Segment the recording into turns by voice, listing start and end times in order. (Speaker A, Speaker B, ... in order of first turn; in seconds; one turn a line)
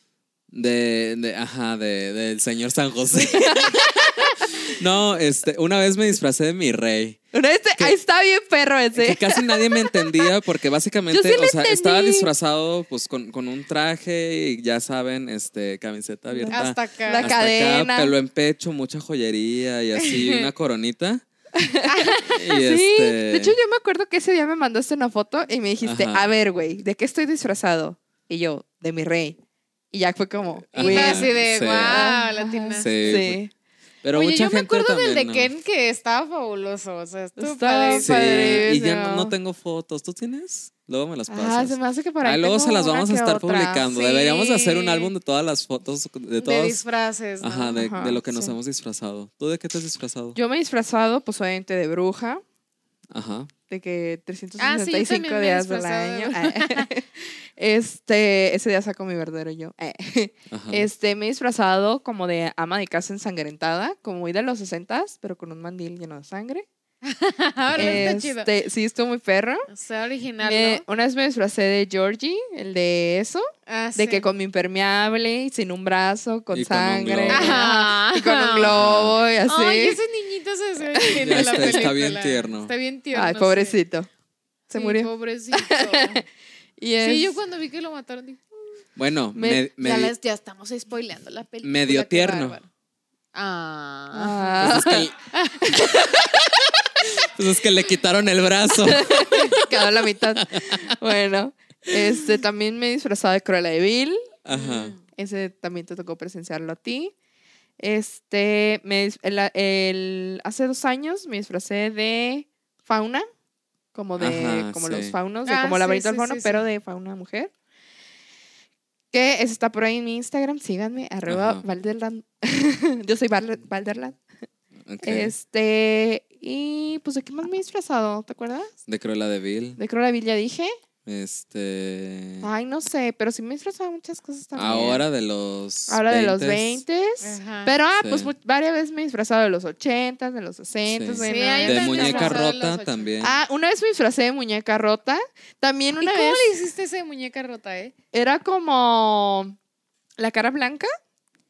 Speaker A: 0.5-7.2
Speaker B: 3.1-4.7
Speaker B: 7.3-10.3
Speaker A: 8.9-21.2
Speaker B: 11.1-12.3
Speaker B: 16.3-18.1
Speaker C: 16.5-17.4
Speaker C: 20.0-20.4
Speaker B: 21.5-29.4
Speaker C: 21.8-22.3
Speaker A: 22.2-23.6
Speaker A: 25.8-26.3
Speaker B: 29.9-31.3
Speaker A: 30.7-32.2
Speaker C: 30.8-33.2
Speaker B: 31.9-33.5
Speaker A: 32.8-33.4
Speaker A: 34.0-35.5
Speaker C: 34.1-38.7
Speaker B: 37.4-39.3
Speaker A: 38.0-46.8
Speaker B: 41.3-43.9
Speaker C: 43.9-45.1
Speaker C: 46.4-47.9
Speaker A: 47.4-50.4
Speaker B: 47.8-48.6
Speaker B: 50.3-52.4
Speaker A: 53.1-53.5
Speaker B: 53.7-66.7
Speaker C: 54.6-56.9
Speaker A: 60.5-60.9
Speaker C: 67.0-68.5
Speaker A: 67.7-68.1
Speaker B: 67.8-69.7
Speaker C: 69.7-70.8
Speaker B: 70.4-80.0
Speaker C: 73.7-74.3
Speaker A: 76.5-77.6
Speaker C: 77.3-78.7
Speaker A: 78.6-79.2
Speaker C: 79.5-83.8
Speaker B: 80.9-81.9
Speaker A: 81.2-82.7
Speaker B: 83.1-84.1
Speaker C: 84.7-86.2
Speaker B: 84.7-86.2
Speaker B: 86.8-87.3
Speaker C: 87.0-88.4
Speaker A: 89.0-90.1
Speaker B: 89.3-89.7
Speaker C: 89.8-92.7
Speaker A: 91.6-92.6
Speaker C: 93.3-94.7
Speaker B: 94.1-96.4
Speaker A: 94.6-95.1
Speaker C: 95.3-96.1
Speaker A: 97.2-99.7
Speaker B: 98.8-104.4
Speaker A: 100.3-100.9
Speaker A: 104.4-105.0
Speaker C: 104.5-105.0
Speaker B: 105.1-107.1
Speaker B: 107.8-113.3
Speaker B: 113.9-117.5
Speaker A: 114.2-115.1
Speaker C: 115.5-116.6
Speaker B: 119.1-124.2
Speaker A: 121.3-121.6
Speaker A: 124.9-125.3
Speaker B: 125.0-128.7
Speaker A: 128.9-129.8
Speaker B: 129.8-130.7
Speaker A: 131.1-132.5
Speaker B: 132.4-135.0
Speaker A: 134.5-136.8
Speaker B: 135.9-142.4
Speaker C: 137.2-137.7
Speaker A: 138.0-138.3
Speaker A: 140.9-143.3
Speaker C: 141.2-143.1
Speaker B: 143.2-146.5
Speaker C: 146.0-147.9
Speaker B: 148.1-149.6
Speaker B: 150.2-150.9